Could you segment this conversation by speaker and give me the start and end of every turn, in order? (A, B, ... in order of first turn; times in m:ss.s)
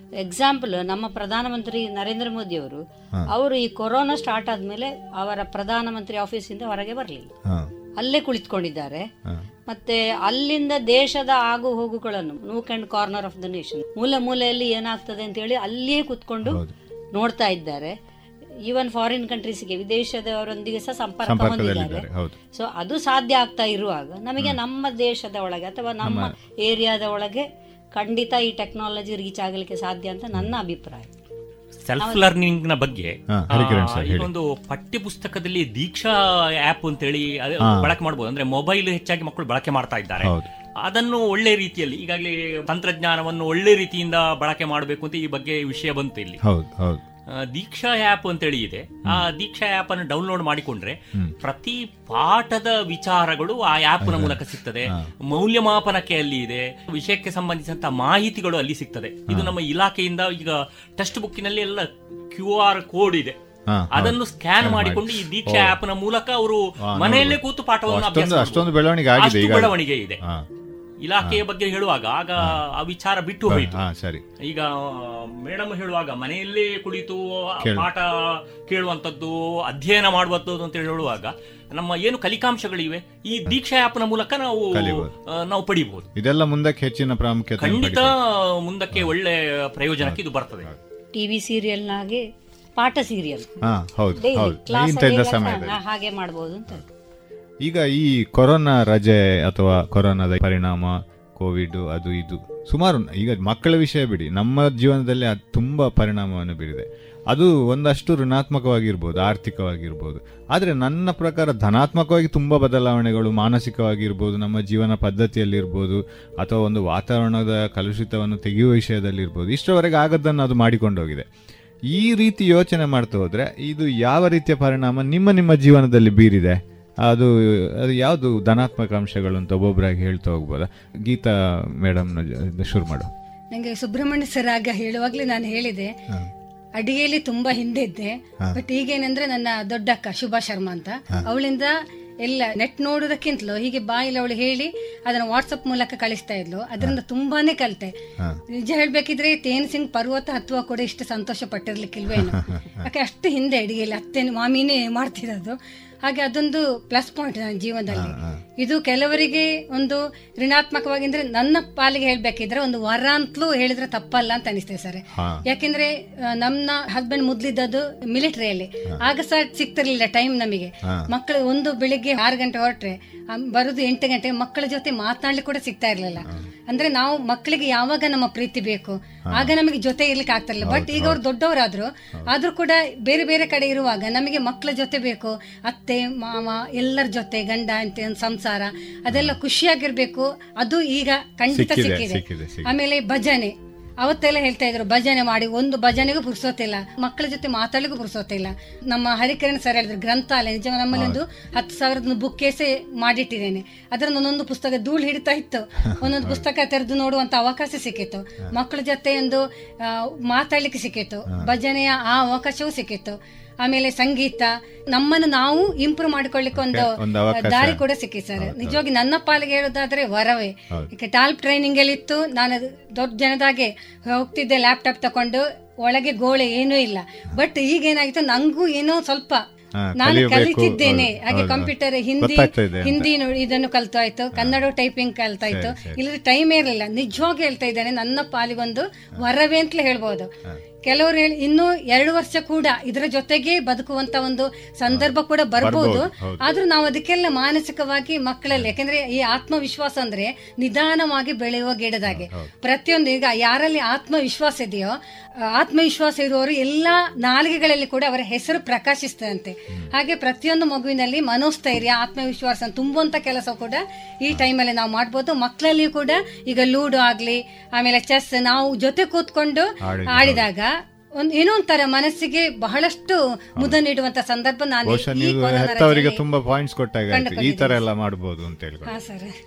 0:00.2-0:07.3 A
0:07.4-0:07.7 B
0:08.0-0:09.1 A
0:09.7-0:16.6 A
0:16.4-0:16.7 B
0:17.1-0:17.9 A
0:18.6-0:31.1 A
0:21.2-0:22.4 B
0:26.0-0:26.3 B
0:31.8-0:46.4 C
0:33.3-0:34.3 B
0:37.6-0:37.9 B
0:40.2-0:40.5 B
0:46.4-0:47.0 B
0:47.3-1:03.4 C
0:54.0-0:55.1 B
0:59.3-0:59.6 B
1:03.7-1:05.8 B
1:03.9-1:10.2 C
1:06.8-1:10.5 B
1:11.0-1:13.8 C
1:13.5-1:14.2 B
1:14.4-1:26.1 C
1:17.6-1:17.9 B
1:24.7-1:25.1 B
1:26.2-1:28.2 B
1:27.6-1:30.7 C
1:30.0-1:30.8 B
1:31.1-1:32.2 A
1:32.8-1:33.5 A
1:33.6-1:35.8 B
1:34.2-1:36.8 A
1:37.6-2:01.3 B
2:01.9-2:13.1 B
2:13.5-2:15.9 D
2:16.8-2:27.9 D
2:28.6-3:49.4 D
2:32.1-2:32.9 B
2:37.9-2:38.4 B
2:45.1-2:45.4 B
2:56.2-2:56.5 B
2:59.3-2:59.5 B
3:00.6-3:01.2 B
3:09.1-3:09.4 B
3:11.5-3:12.7 B
3:20.9-3:21.2 B
3:25.9-3:26.4 B
3:36.5-3:37.8 B
3:38.4-3:38.8 B
3:49.8-3:53.1 B
3:50.0-4:00.3 D
3:54.3-3:54.6 B
3:55.5-3:56.0 B
4:00.8-4:14.9 D
4:04.9-4:06.4 B
4:12.0-4:12.5 B
4:15.5-4:36.2 D
4:29.8-4:30.5 B
4:34.8-4:39.0 B
4:37.1-4:37.8 D
4:38.9-4:39.3 D